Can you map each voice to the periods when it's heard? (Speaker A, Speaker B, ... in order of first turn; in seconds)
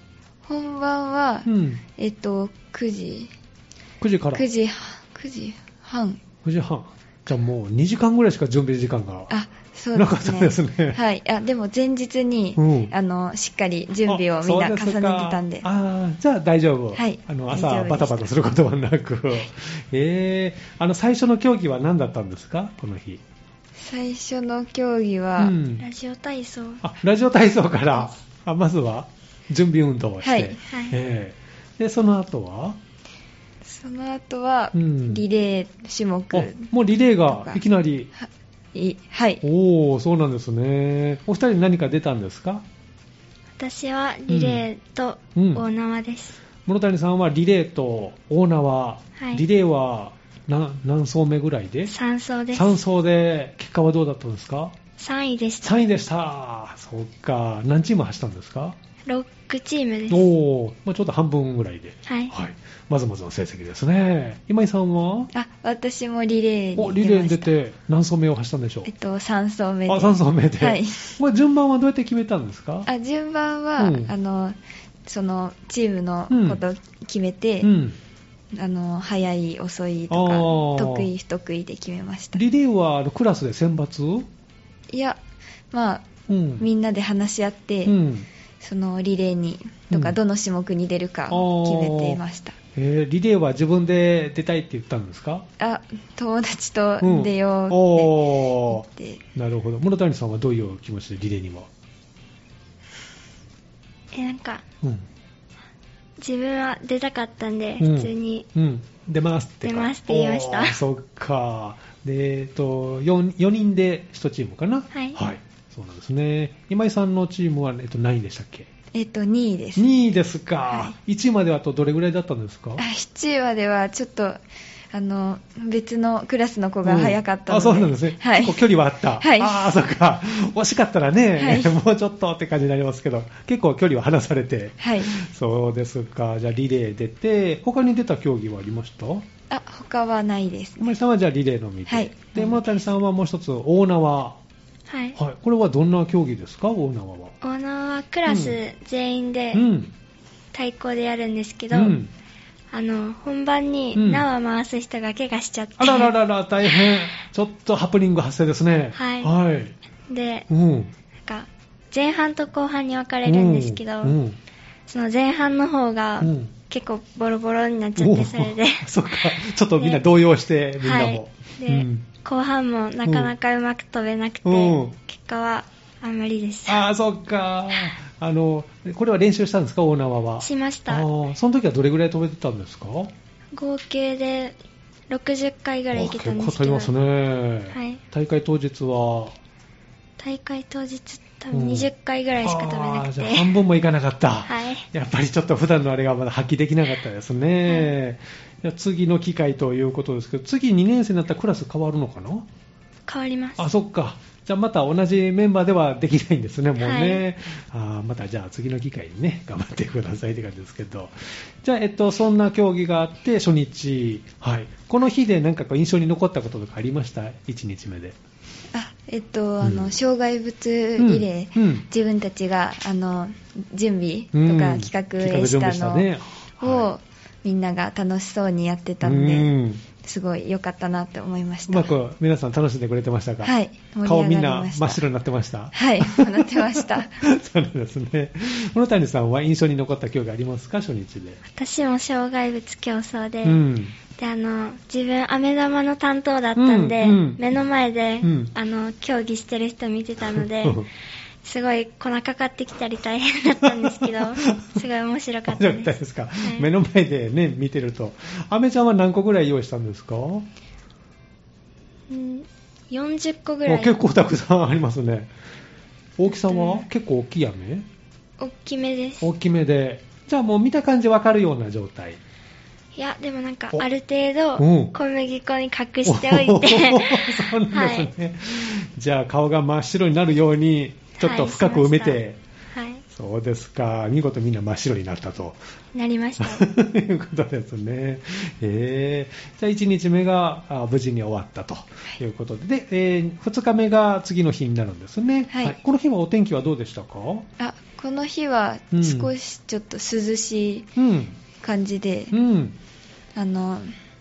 Speaker A: 0.5-3.3, 4.3-6.2, 9.3-15.7, 16.9-18.3, 23.8-25.6, 30.2-30.6, 33.6-36.7, 37.3-37.6, 38.2-39.4, 65.3-67.5, 68.8-71.2, 72.9-77.7, 78.5-82.4, 84.9-85.2, 85.7-86.1, 86.6-88.0, 88.6-92.6, 95.6-99.2, 118.9-119.9, 120.7-121.0, 122.8-128.6, 129.2-129.7, 131.4-131.8, 134.8-135.2, 139.5-140.9, 141.9-142.7, 218.7-226.1, 226.6-231.9, 233.4-235.0, 235.7-237.3, 295.5-295.8, 297.6-300.9, 301.6-302.4, 303.4-303.9
Speaker B: 1.5-1.8, 4.0-4.5, 6.4-9.3, 9.9-11.0, 12.6-12.9, 14.1-23.2, 25.4-25.9, 26.8-32.8, 34.7-35.2, 36.3-38.1, 39.4-42.6, 44.3-44.6, 45.4-45.6, 46.7-52.0, 52.5-54.8, 55.6-58.8, 60.1-65.3, 66.8-68.9, 69.9-72.9, 73.8-74.1, 76.3-76.6, 77.6-78.0, 80.1-81.1, 82.3-84.3, 86.3-86.7, 87.8-88.3, 89.9-90.2, 91.3-92.2, 92.8-95.5, 97.0-101.7, 107.8-118.7, 119.8-122.8, 126.8-139.3, 140.8-144.4, 145.2-147.3, 148.3-148.6, 149.5-149.9, 151.7-152.1, 153.9-154.3, 155.8-159.8, 160.5-160.9, 163.2-164.4, 166.2-166.5, 168.0-172.1, 173.1-173.3, 174.4-174.9, 176.7-183.1, 185.9-189.4, 191.5-202.5, 203.6-218.2, 219.6-220.0, 221.0-221.9, 224.3-226.9, 229.0-229.8, 231.7-233.5, 234.1-241.4, 243.4-244.0, 246.6-247.4, 248.2-248.5, 250.3-250.9, 253.6-254.8, 255.5-260.5, 263.7-265.3, 266.2-267.9, 269.2-272.2, 274.6-274.9, 276.1-282.4, 283.1-285.6, 286.4-297.5, 298.9-299.3, 301.0-301.4, 302.3-302.8
Speaker C: 25.8-26.8, 30.7-31.0, 43.6-46.4, 51.9-52.8, 55.0-55.8, 59.1-60.3, 62.1-62.3, 104.1-104.6, 106.2-108.5, 109.6-110.8, 114.9-115.2, 144.9-145.2, 147.4-149.7, 150.5-152.0, 152.7-156.1, 158.9-159.3, 160.1-160.5, 161.3-164.2, 164.9-168.9, 169.8-170.0, 170.8-176.8, 180.4-181.1, 183.5-184.6, 185.1-186.9, 187.7-188.0, 190.2-193.5, 194.5-194.8, 203.1-203.7, 206.8-207.2, 241.5-250.8, 251.4-256.7, 262.1-263.9, 266.5-266.9, 268.4-269.3, 272.9-278.1, 281.2-282.2, 282.7-283.0, 285.9-286.7